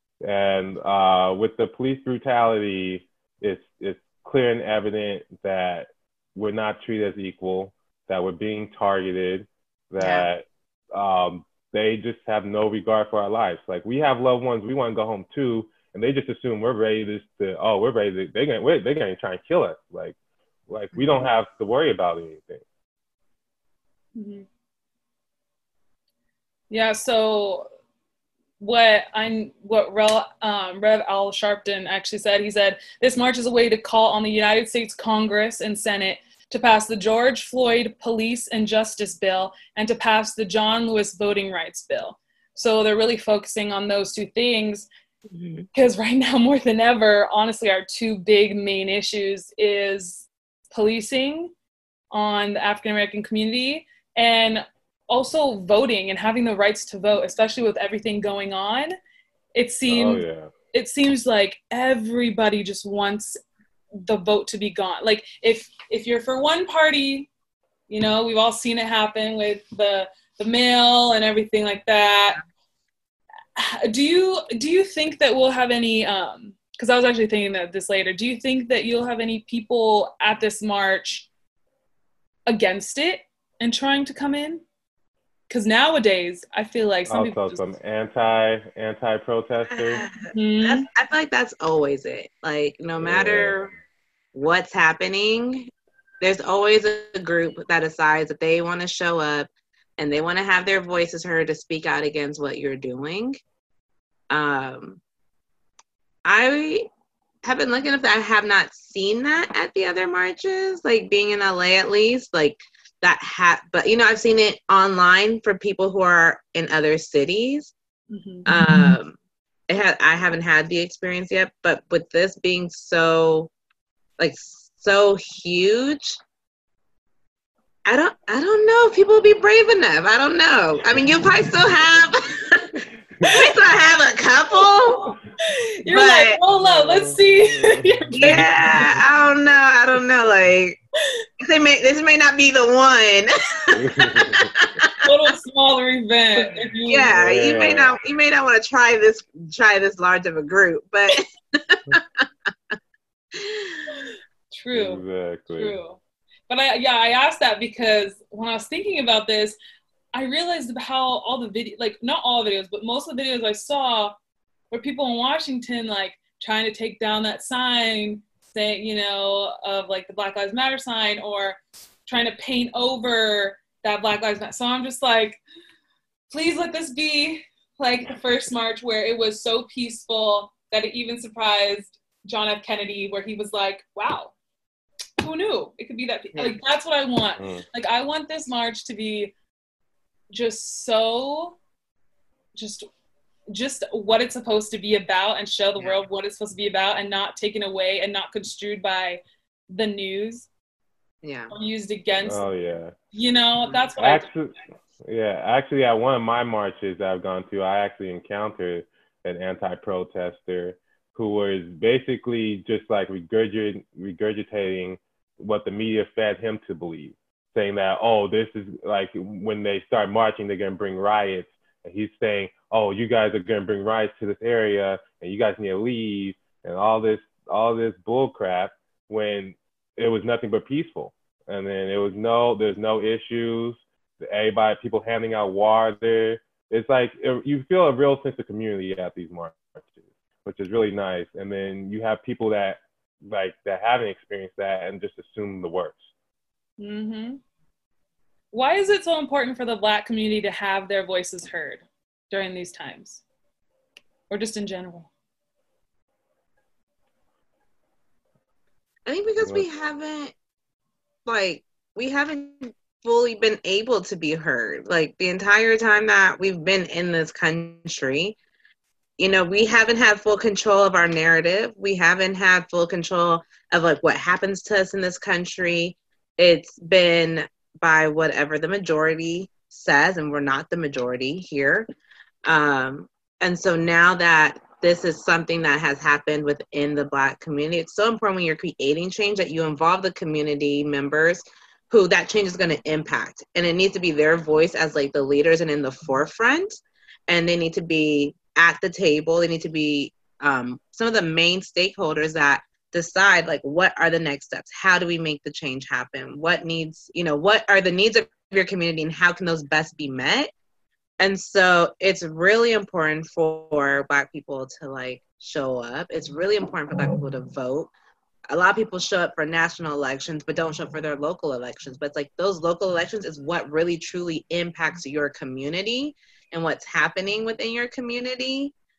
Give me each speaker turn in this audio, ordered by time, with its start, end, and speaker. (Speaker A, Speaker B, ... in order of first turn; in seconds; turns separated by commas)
Speaker A: 0.2-20.1, Speaker B: 10.0-10.3, Speaker A: 20.7-22.6, Speaker B: 20.9-21.2, Speaker C: 24.1-24.4, Speaker C: 26.7-27.7, Speaker C: 28.6-44.9, Speaker B: 45.3-45.7, Speaker C: 45.7-51.5, Speaker C: 52.1-58.9, Speaker C: 59.5-63.4, Speaker A: 59.9-60.5, Speaker C: 64.0-67.3, Speaker C: 67.9-72.4, Speaker C: 73.5-81.3, Speaker C: 82.5-84.6, Speaker C: 85.5-87.7, Speaker A: 87.1-90.0, Speaker B: 89.7-93.7, Speaker C: 90.3-90.8, Speaker A: 93.0-93.6, Speaker B: 94.3-103.4, Speaker B: 104.3-105.0, Speaker B: 106.2-106.9, Speaker B: 107.4-117.7, Speaker C: 118.1-118.5, Speaker B: 118.5-119.2, Speaker B: 119.7-123.5, Speaker B: 124.2-126.2, Speaker B: 127.8-135.2, Speaker C: 133.2-133.5, Speaker C: 134.5-138.9, Speaker B: 135.9-136.4, Speaker A: 136.6-139.0, Speaker B: 138.2-140.8, Speaker B: 141.4-145.0, Speaker A: 143.7-144.6, Speaker C: 144.9-147.1, Speaker B: 146.4-152.2, Speaker A: 147.1-147.9, Speaker B: 153.3-154.1, Speaker C: 154.5-159.6, Speaker A: 154.7-155.8, Speaker C: 160.1-164.1, Speaker C: 164.7-175.4, Speaker C: 176.3-184.3, Speaker C: 185.2-189.3, Speaker A: 187.4-187.6, Speaker C: 190.3-191.6, Speaker C: 192.6-192.9, Speaker C: 193.5-200.5, Speaker B: 201.2-201.5, Speaker C: 201.5-202.5, Speaker A: 202.2-202.9, Speaker C: 203.1-204.3, Speaker A: 204.0-246.1, Speaker C: 246.8-247.4, Speaker C: 248.5-253.2, Speaker C: 254.3-255.1, Speaker B: 259.1-260.3, Speaker B: 261.2-268.4, Speaker B: 269.2-281.9, Speaker B: 282.4-310.5, Speaker B: 311.2-317.9, Speaker B: 318.5-328.7